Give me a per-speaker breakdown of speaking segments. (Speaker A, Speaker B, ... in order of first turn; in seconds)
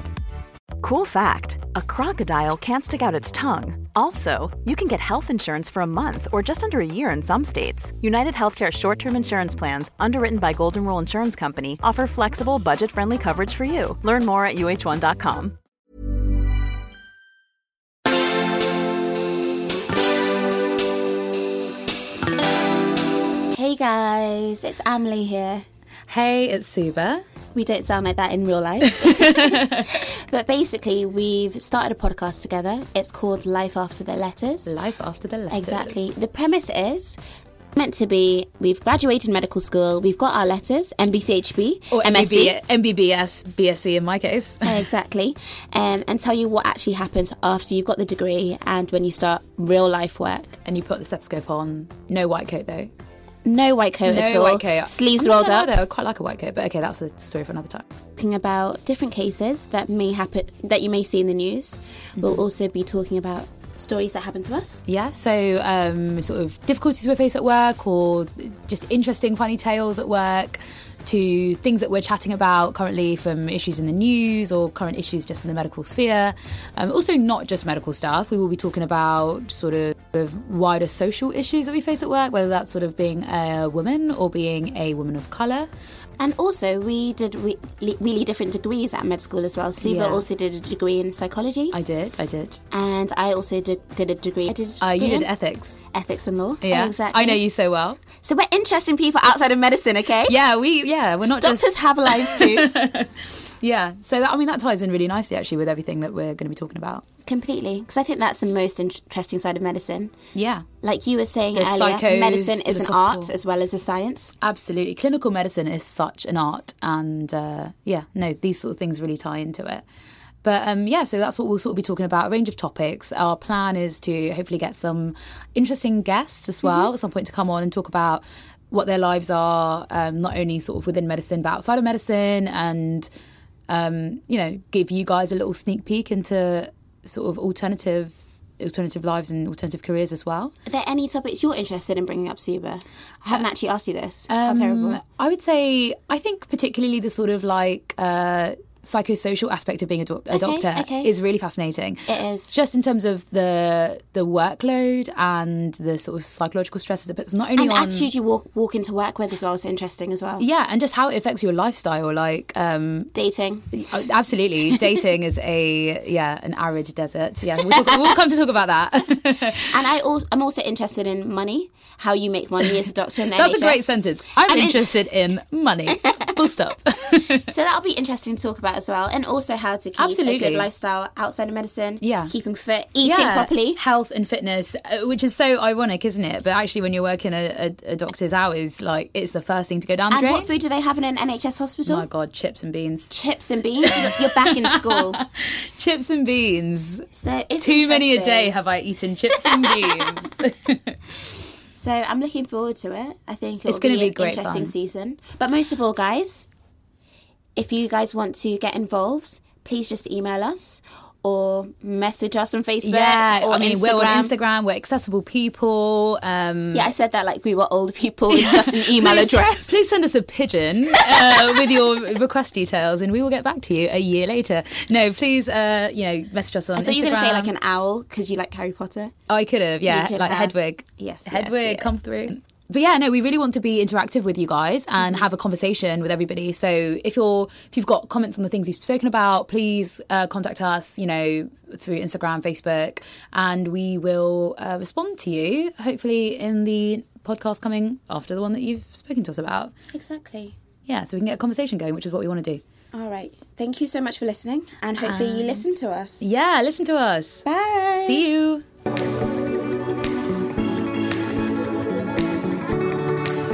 Speaker A: 0.8-15.6
Speaker B: 23.5-25.6, 27.5-34.7, 35.5-37.2, 37.8-42.6, 44.6-50.6, 53.5-55.7, 58.2-64.8, 86.2-91.8, 92.7-95.3, 95.9-97.4, 98.2-100.3, 101.4-102.7, 107.3-110.1, 110.8-114.3, 140.7-145.0, 150.3-151.1, 152.1-152.5, 157.6-160.5, 163.1-163.7, 169.6-174.9, 177.5-183.8, 190.1-192.1, 193.1-195.2, 197.1-198.5, 201.7-206.5, 207.6-214.3, 216.7-219.8, 226.8-229.1, 229.8-231.9, 249.9-250.6, 252.9-256.3, 257.4-258.2
Speaker C: 26.1-27.2, 28.9-29.8, 34.7-36.1, 41.9-44.8, 50.6-52.9, 54.1-57.9, 64.9-85.7, 89.8-90.2, 91.7-92.6, 94.8-95.8, 96.6-98.0, 100.3-103.1, 103.6-107.0, 110.3-110.7, 111.5-113.3, 114.4-119.8, 120.4-133.1, 133.7-140.5, 144.3-158.1, 160.4-163.1, 163.7-169.7, 173.3-177.5, 180.0-180.7, 182.0-182.3, 183.0-190.5, 191.9-193.1, 194.6-197.1, 197.6-201.0, 203.7-204.7, 212.8-216.9, 218.3-227.5, 229.3-249.7, 250.9-252.6, 255.0-255.7, 256.2-257.4, 258.0-258.6